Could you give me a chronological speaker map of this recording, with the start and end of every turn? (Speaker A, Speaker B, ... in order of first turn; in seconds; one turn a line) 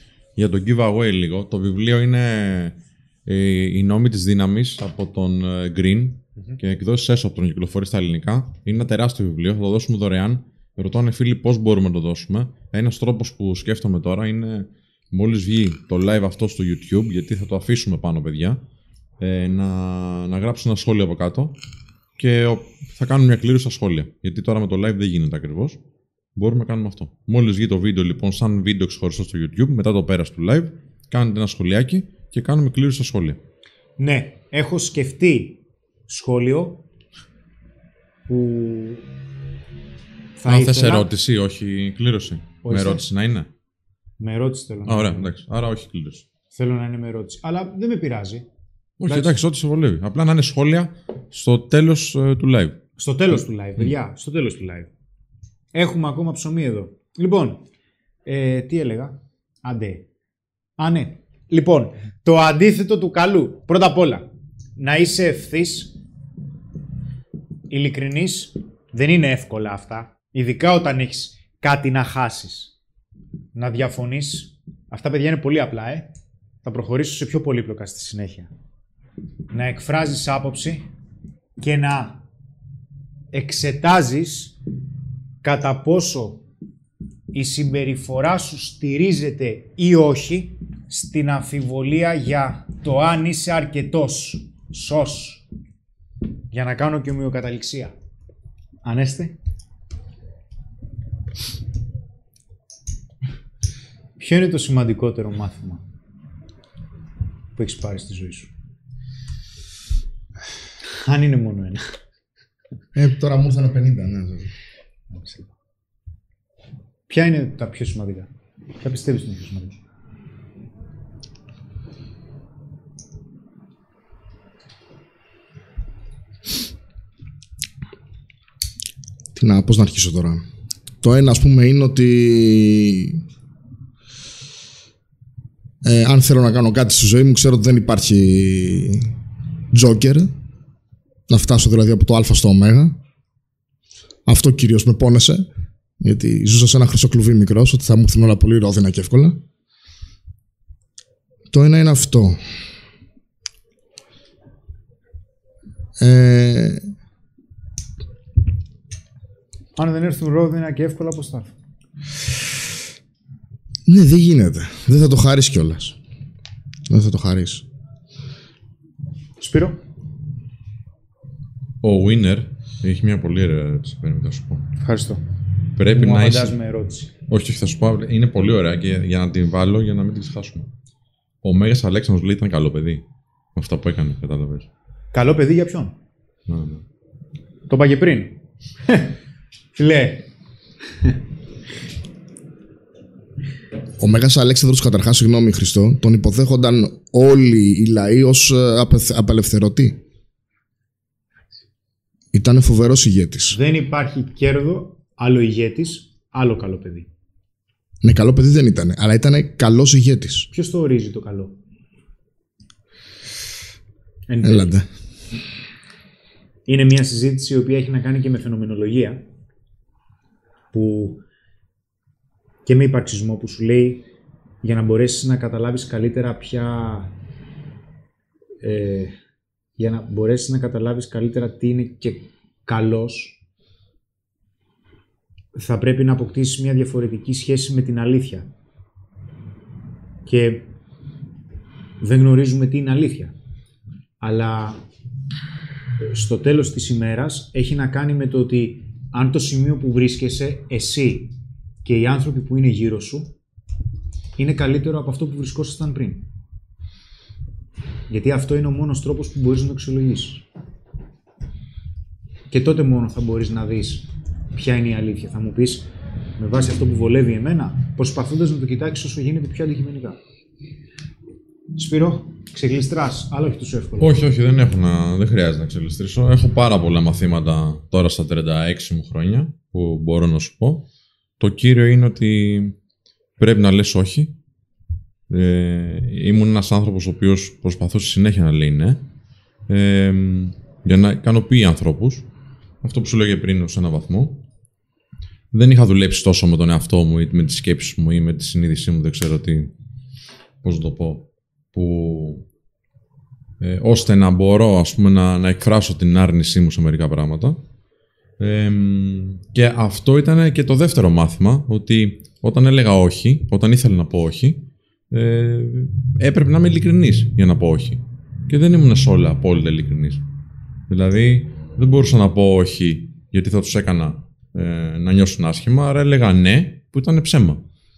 Speaker A: 0.4-18.6
Speaker A: 19.2-21.6
Speaker A: 22.2-25.8
Speaker A: 26.4-33.4
Speaker B: 34.0-36.8
Speaker B: 38.3-39.0
Speaker B: 40.4-41.1
Speaker A: 40.5-43.5
Speaker B: 42.6-43.1
Speaker B: 44.2-45.3
Speaker A: 44.9-46.2
Speaker B: 46.5-48.5
Speaker A: 49.0-52.8
Speaker B: 49.1-49.4
Speaker B: 53.0-54.9
Speaker B: 55.7-57.6
Speaker B: 58.3-60.0
Speaker B: 60.8-65.9
Speaker B: 67.7-72.7
Speaker B: 73.5-76.1
Speaker B: 76.6-78.5
Speaker B: 79.5-80.9
Speaker B: 81.6-82.2
Speaker B: 83.3-84.5
Speaker B: 85.4-86.4
Speaker B: 87.3-95.4
Speaker B: 96.5-97.9
Speaker B: 98.8-99.3
Speaker B: 104.2-105.8
Speaker B: 107.6-108.5
Speaker B: 111.0-111.8
Speaker C: 113.0-114.5
Speaker B: 115.1-115.5
Speaker B: 117.1-118.3
Speaker B: 118.8-119.8
Speaker C: 129.3-130.4
Speaker C: 131.0-133.2
Speaker C: 135.8-139.1
Speaker C: 139.7-140.3
Speaker C: 141.3-143.0
Speaker C: 144.3-145.5
Speaker C: 146.0-149.4
Speaker C: 151.5-152.4
Speaker C: 156.0-156.9
Speaker B: 159.8-161.5
Speaker C: 163.9-166.0
Speaker C: 166.9-167.6
Speaker B: 169.4-169.8
Speaker A: 171.8-174.7
Speaker B: 174.8-175.2
Speaker A: 175.8-176.6
Speaker B: 175.9-177.1
Speaker A: 177.3-180.7
Speaker A: 181.4-183.0
Speaker A: 183.6-184.7
Speaker B: 185.1-185.9
Speaker A: 186.5-186.8
Speaker B: 187.7-189.1
Speaker B: 189.7-190.3
Speaker C: 194.0-200.0
Speaker C: 202.3-203.6
Speaker B: 203.5-207.1
Speaker C: 208.0-210.5
Speaker B: 210.5-211.6
Speaker B: 214.3-214.8
Speaker C: 214.4-214.8
Speaker B: 216.7-219.2
Speaker B: 220.7-221.2
Speaker B: 222.6-224.1
Speaker B: 224.6-227.1
Speaker B: 228.6-229.2
Speaker B: 229.8-233.4
Speaker B: 235.6-238.5
Speaker B: 240.3-240.7
Speaker B: 242.0-243.3
Speaker B: 244.2-244.8
Speaker B: 246.0-253.3
Speaker B: 254.4-256.2
Speaker B: 258.1-260.4
Speaker B: 262.5-270.2
Speaker B: 271.8-274.2
Speaker A: 274.0-280.9
Speaker A: 281.4-282.8
Speaker A: 283.4-284.3
Speaker A: 285.3-289.0
Speaker A: 289.7-292.2
Speaker A: 292.8-294.4
Speaker A: 295.5-299.7
Speaker A: 300.6-302.4
Speaker A: 303.6-307.6
Speaker A: 308.4-320.2
Speaker A: 320.9-327.6